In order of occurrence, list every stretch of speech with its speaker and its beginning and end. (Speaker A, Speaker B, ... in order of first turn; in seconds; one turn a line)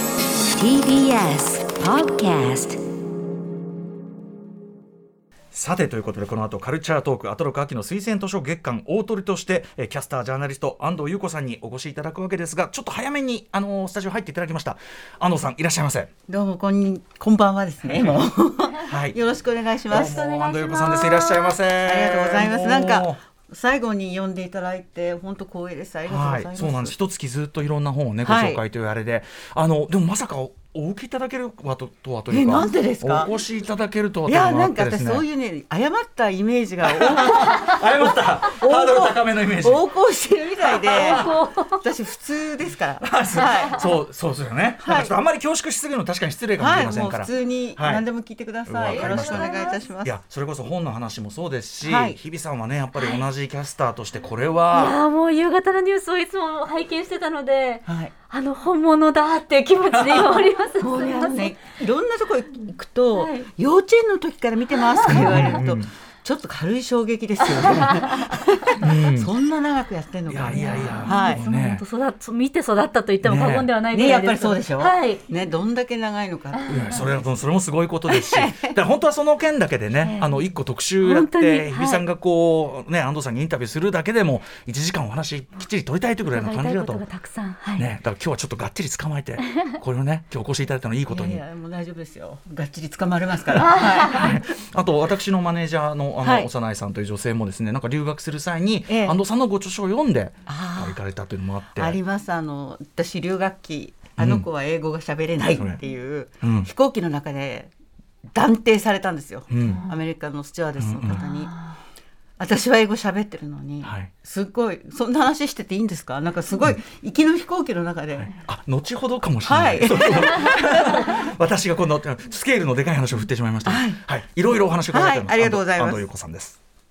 Speaker A: 0.5-2.8
Speaker B: 5.5-16.1
Speaker C: 16.3-20.2
Speaker B: 17.8-18.2
Speaker B: 18.8-19.2
Speaker B: 19.9-23.2
Speaker D: 19.9-21.6
Speaker C: 21.8-26.9
Speaker B: 26.1-35.2
Speaker C: 28.2-28.6
Speaker C: 32.3-33.3
Speaker C: 34.2-43.8
Speaker B: 36.8-39.9
Speaker B: 40.6-41.4
Speaker D: 40.9-41.8
Speaker B: 43.0-48.0
Speaker C: 44.8-45.1
Speaker C: 46.6-50.1
Speaker B: 48.6-49.5
Speaker D: 48.9-49.9
Speaker B: 50.0-55.0
Speaker C: 51.8-52.2
Speaker D: 54.7-61.6
Speaker C: 57.9-58.1
Speaker C: 60.8-71.4
Speaker D: 63.1-63.5
Speaker D: 65.0-65.6
Speaker B: 65.0-65.9
Speaker B: 68.8-69.3
Speaker B: 70.3-71.8
Speaker D: 70.5-75.2
Speaker B: 73.2-73.7
Speaker C: 73.9-77.3
Speaker B: 76.7-87.0
Speaker C: 78.1-78.8
Speaker D: 80.0-80.3
Speaker D: 81.0-82.0
Speaker D: 86.3-87.9
Speaker B: 87.7-91.4
Speaker C: 91.1-94.3
Speaker D: 93.6-94.3
Speaker B: 93.6-102.0
Speaker C: 96.2-96.5
Speaker C: 98.9-99.2
Speaker C: 100.5-101.0
Speaker C: 101.8-107.7
Speaker B: 104.2-104.5
Speaker B: 105.5-105.8
Speaker B: 106.4-106.7
Speaker C: 108.3-111.5
Speaker B: 109.5-109.8
Speaker D: 109.6-109.9
Speaker B: 110.8-111.2
Speaker D: 111.1-111.8
Speaker C: 112.4-118.3
Speaker B: 113.8-114.1
Speaker B: 118.2-126.6
Speaker C: 119.5-121.2
Speaker C: 123.7-124.0
Speaker C: 124.9-126.0